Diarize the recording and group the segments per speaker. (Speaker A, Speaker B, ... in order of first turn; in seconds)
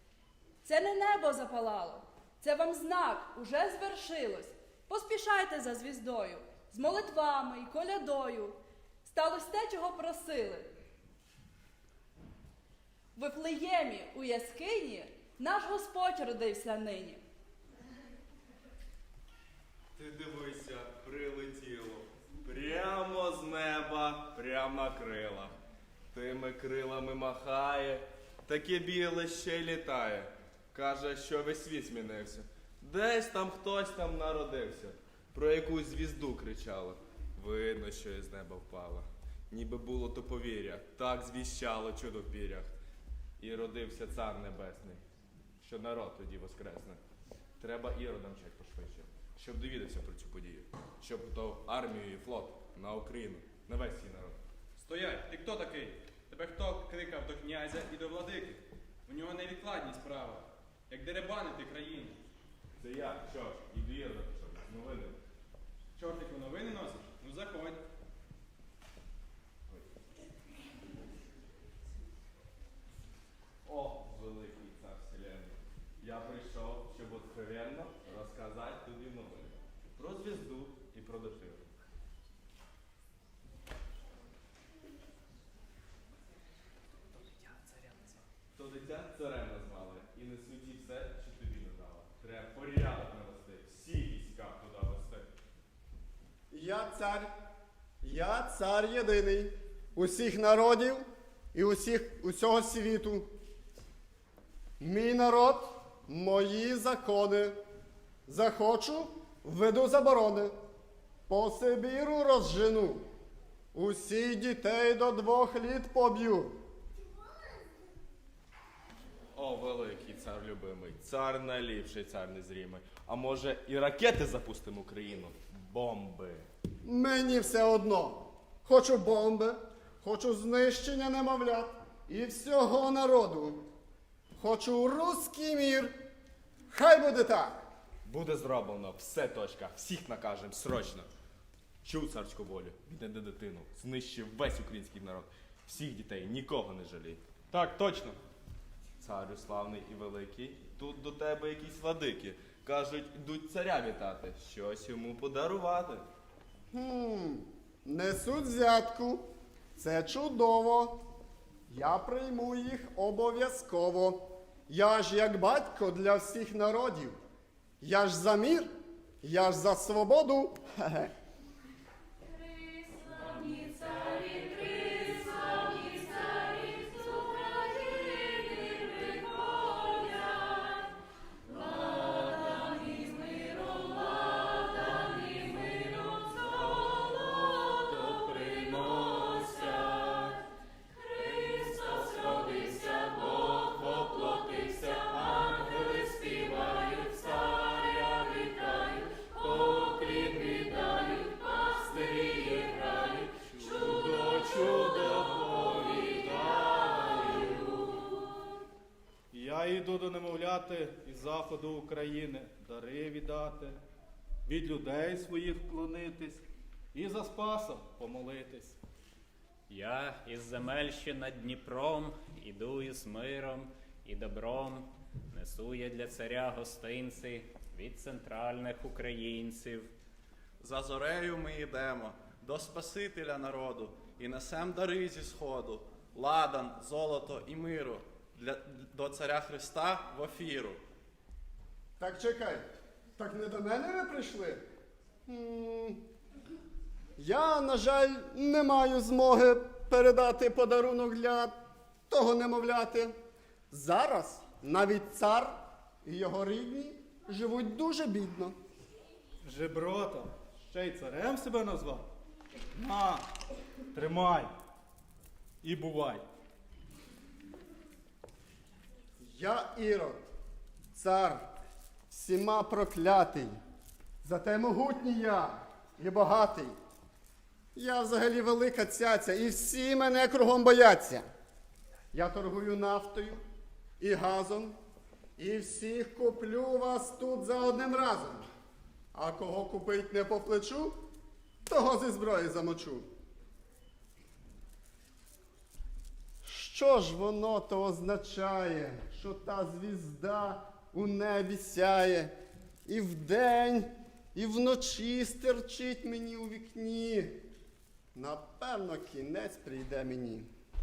Speaker A: 0.6-10.7, 13.2-17.2
Speaker B: 19.9-25.5, 26.1-42.7, 43.4-45.0, 45.6-47.0, 47.6-54.4, 62.8-65.2, 73.6-81.7, 88.5-95.3, 119.3-126.4, 138.1-141.1, 141.8-147.2, 149.0-156.1
Speaker C: 54.8-62.1, 66.0-67.8, 147.5-148.0
Speaker D: 96.5-97.3, 98.0-103.3, 104.8-107.6, 108.3-110.5, 111.3-113.0, 113.7-116.6, 126.8-133.6, 134.4-135.9, 136.7-137.6, 156.7-161.0, 161.7-167.2, 167.8-168.7, 169.2-171.1, 242.0-242.6, 243.2-244.6, 245.3-246.0, 247.2-251.5, 252.1-253.1, 253.7-258.5, 269.2-270.2, 270.9-271.4, 272.1-273.6, 274.2-276.8, 277.7-281.2, 282.1-283.4, 284.0-284.7, 285.4-288.5, 289.1-291.0, 291.6-293.0, 296.4-302.3, 302.9-307.4, 308.1-310.5
Speaker E: 188.1-189.6, 199.5-200.8, 202.6-207.3, 209.3-213.8, 214.5-216.4, 216.9-218.8, 259.4-262.0, 262.8-263.2, 263.9-264.5, 265.6-266.2
Speaker F: 219.7-229.9
Speaker G: 230.6-240.8